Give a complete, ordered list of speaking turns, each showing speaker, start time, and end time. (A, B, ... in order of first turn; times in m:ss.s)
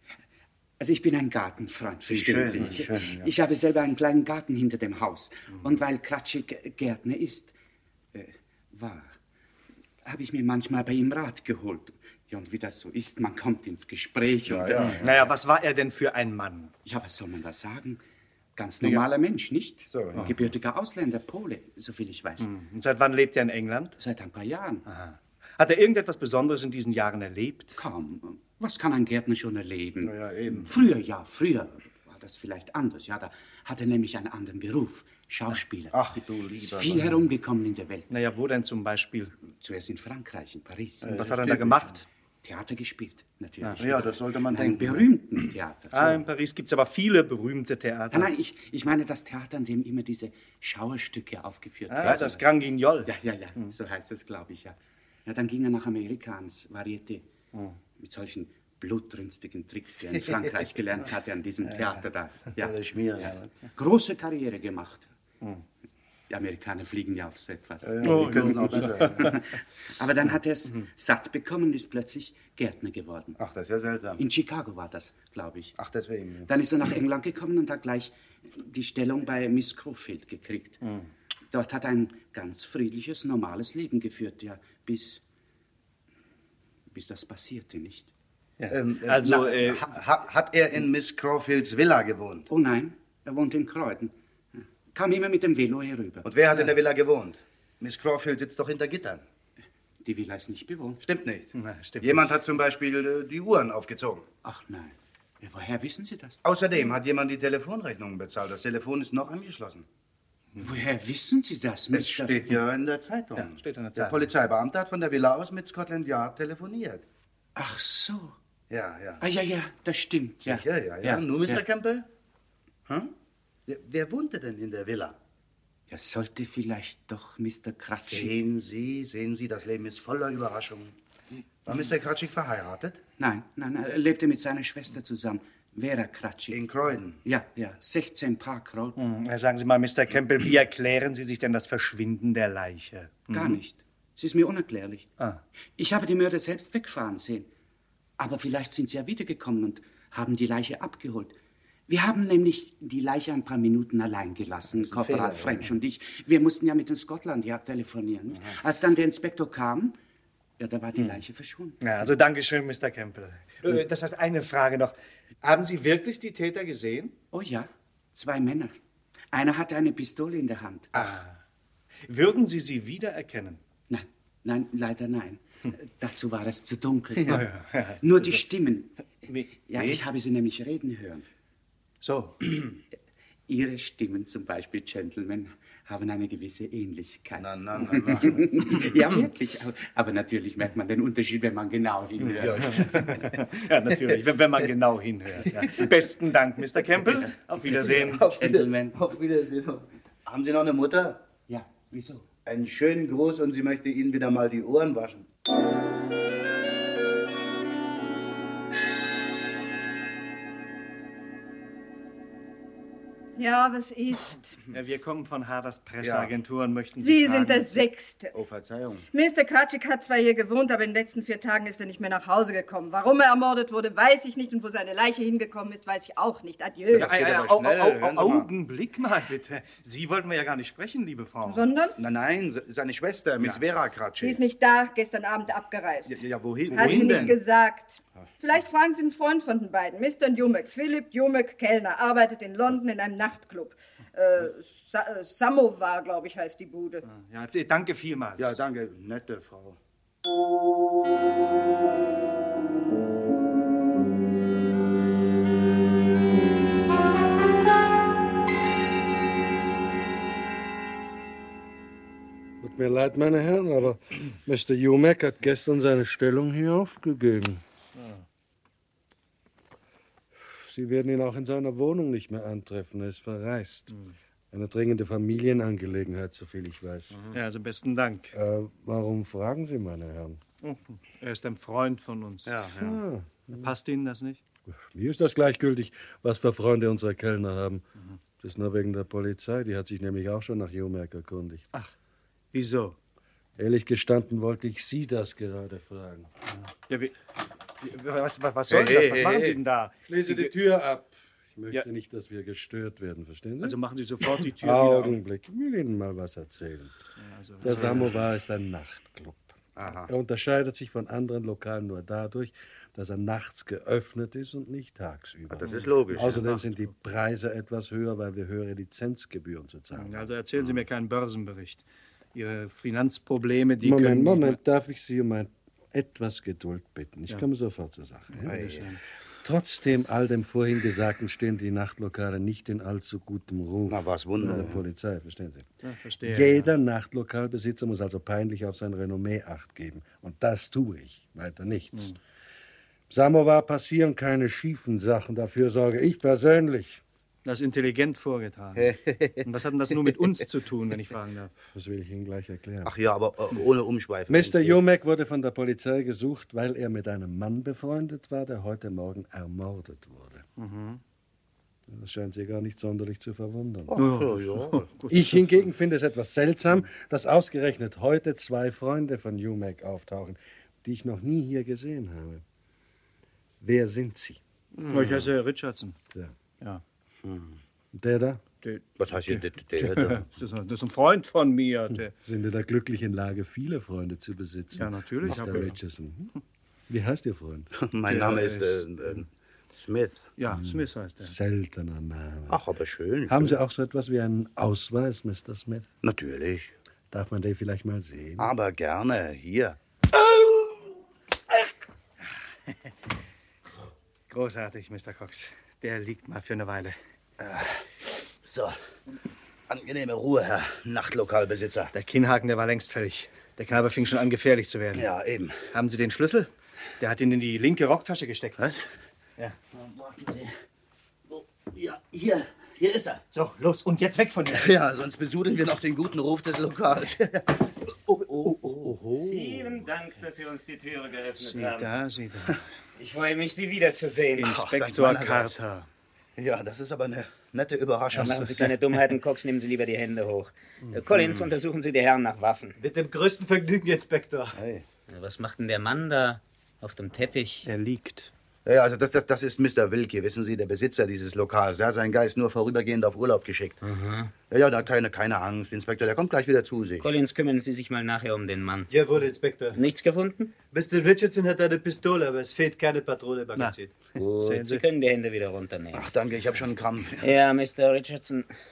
0:00.8-0:07.5 A
0:02.1-0:03.3 B
0:08.1-0:09.1 A
0:10.0-0:15.1 A
0:14.5-0:15.2 B
0:14.7-0:16.7 C
0:16.8-0:18.0 A
0:18.6-0:22.5 A
0:19.9-0:20.3 B
0:22.4-0:24.0 C
0:24.0-0:24.9 A
0:24.9-0:27.8 C
0:27.8-0:36.0 A
0:30.0-0:30.7 B
0:35.9-0:37.1 B
0:36.6-0:38.1 A
0:38.1-0:39.3 C
0:39.4-0:41.3 A
0:41.0-0:41.9 B
0:41.1-0:42.0 C
0:42.4-0:46.2 A
0:43.8-0:45.1 B
0:45.9-0:48.3 C
0:48.1-0:52.4 A
0:51.9-0:53.8 C
0:52.0-0:52.4 B
0:53.1-0:57.3 A
0:58.0-1:05.1 A
1:02.6-1:03.5 B
1:06.3-1:13.4 A
1:07.8-1:09.3 B
1:08.0-1:09.3 C
1:13.4-1:14.2 B
1:14.2-1:15.8 A
1:15.8-1:16.5 B
1:16.5-1:20.8 A
1:20.8-1:21.1 C
1:21.5-1:25.2 A
1:26.9-1:28.1 A
1:28.6-1:29.9 C
1:28.7-1:32.5 B
1:32.5-1:36.3 A
1:36.2-1:39.2 B
1:40.0-1:41.0 A
1:41.0-1:44.3 B
1:41.6-1:42.3 C
1:44.4-1:46.4 A
1:46.4-1:49.8 B
1:50.6-1:52.4 A
1:51.9-1:57.0 B
1:52.2-1:52.6 C
1:53.4-1:54.3 C
1:57.6-1:58.4 A
1:58.7-1:59.2 B
1:59.2-2:01.4 A
2:00.4-2:02.1 B
2:02.9-2:03.1 B
2:03.7-2:05.2 B
2:05.9-2:08.3 A
2:08.1-2:11.0 B
2:11.6-2:13.0 B
2:13.2-2:16.6 A
2:16.5-2:17.2 B
2:17.2-2:19.0 A
2:19.0-2:23.6 C
2:23.3-2:25.1 A
2:25.8-2:27.5 A
2:28.2-2:31.4 A
2:31.9-2:40.0 A
2:34.7-2:35.7 B
2:40.6-2:41.8 A
2:41.8-2:47.1 C
2:47.3-2:48.7 A
2:49.3-2:51.2 A
2:50.9-2:51.4 C
2:52.0-2:53.6 C
2:53.9-2:57.5 A
2:57.3-2:58.4 C
2:58.0-2:59.0 A
2:59.3-2:59.6 C
2:59.6-3:01.2 A
3:02.0-3:02.4 C
3:03.5-3:13.3 A
3:07.4-3:09.0 B
3:12.3-3:18.3 C
3:12.4-3:13.2 B
3:17.9-3:21.2 B
3:18.2-3:19.0 A
3:21.5-3:22.3 A
3:22.4-3:25.3 B
3:33.4-3:34.6 D
3:34.7-3:37.9 C
3:36.0-3:36.3 B
3:37.0-3:38.3 D
3:38.3-3:39.1 B
3:39.1-3:47.1 D
3:46.9-3:51.7 C
3:46.9-3:48.5 B
3:51.4-3:52.0 D
3:52.0-3:54.4 B
3:54.2-4:07.0 D
3:56.0-3:57.4 B
3:56.7-3:57.4 C
4:07.1-4:08.6 C
4:08.4-4:09.8 B
4:22.6-4:27.6 E
4:28.0-4:28.2 C
4:30.6-4:34.0 E
4:34.5-4:37.2 E
4:37.3-4:38.3 C
4:38.3-4:40.4 E
4:40.6-4:42.5 C
4:42.4-4:43.0 B
4:42.8-4:43.7 E
4:43.6-4:44.4 C
4:44.8-4:47.8 E
4:48.4-4:51.6 E
4:52.5-4:53.0 C
4:53.6-4:56.3 E
4:56.9-4:57.1 C
4:57.8-5:00.6 C
4:58.7-4:59.6 B
5:00.1-5:03.8 E
5:03.6-5:05.2 C
5:04.6-5:07.0 E
5:07.2-5:08.3 C
5:07.6-5:20.3 E
5:09.8-5:10.1 B
5:15.5-5:16.4 B
5:15.6-5:16.9 C
5:19.9-5:24.6 C
5:23.8-5:28.6 E
5:28.3-5:29.0 C
5:28.4-5:29.0 B
5:29.4-5:35.7 E
5:33.9-5:34.8 B
5:35.8-5:36.7 C
5:36.2-5:42.2 E
5:43.1-5:47.0 E
5:47.4-5:48.9 C
5:48.8-5:49.5 B
5:49.4-5:51.5 C
5:51.7-5:52.9 E
5:52.8-5:54.8 B
5:54.3-6:00.4 E
6:00.6-6:01.0 C
6:01.9-6:04.0 E
6:03.9-6:04.9 B
6:04.0-6:05.7 C
6:05.1-6:12.4 E
6:13.6-6:14.4 E
6:14.8-6:15.3 B
6:14.9-6:16.0 C
6:17.2-6:17.6 B
6:17.9-6:18.4 E
6:18.6-6:22.1 C
6:19.0-6:20.3 B
6:22.2-6:26.3 E
6:24.7-6:25.8 C
6:26.9-6:27.7 E
6:27.8-6:30.3 B
6:28.1-6:28.8 C
6:30.4-6:31.4 C
6:30.4-6:32.6 E
6:32.5-6:33.6 B
6:33.3-6:35.9 E
6:36.0-6:36.7 B
6:37.1-6:38.5 E
6:38.4-6:40.9 B
6:44.3-6:47.0 C
6:47.4-6:48.8 B
6:49.7-6:51.9 B
6:51.9-6:55.1 C
6:54.9-6:55.6 B
6:55.7-6:58.7 C
6:58.6-6:58.8 B
6:59.7-7:00.5 B
7:01.3-7:03.2 B
7:03.3-7:04.7 C
7:04.5-7:09.0 B
7:08.4-7:09.8 C
7:09.2-7:11.9 F
7:11.4-7:12.6 C
7:13.0-7:14.6 F
7:14.4-7:15.9 C
7:14.4-7:15.6 B
7:16.4-7:18.5 B
7:18.1-7:18.8 C
7:18.2-7:22.8 F
7:22.8-7:24.6 G
7:24.5-7:24.8 B
7:25.1-7:27.7 F
7:27.6-7:28.3 C
7:28.6-7:33.8 B
7:33.8-7:34.3 F
7:34.5-7:37.1 B
7:37.0-7:39.0 F
7:38.9-7:39.8 G
7:39.7-7:40.5 F
7:40.7-7:43.9 G
7:44.2-7:44.7 B
7:44.4-7:44.8 C
7:44.6-7:46.1 F
7:45.9-7:47.3 B
7:47.2-7:48.5 F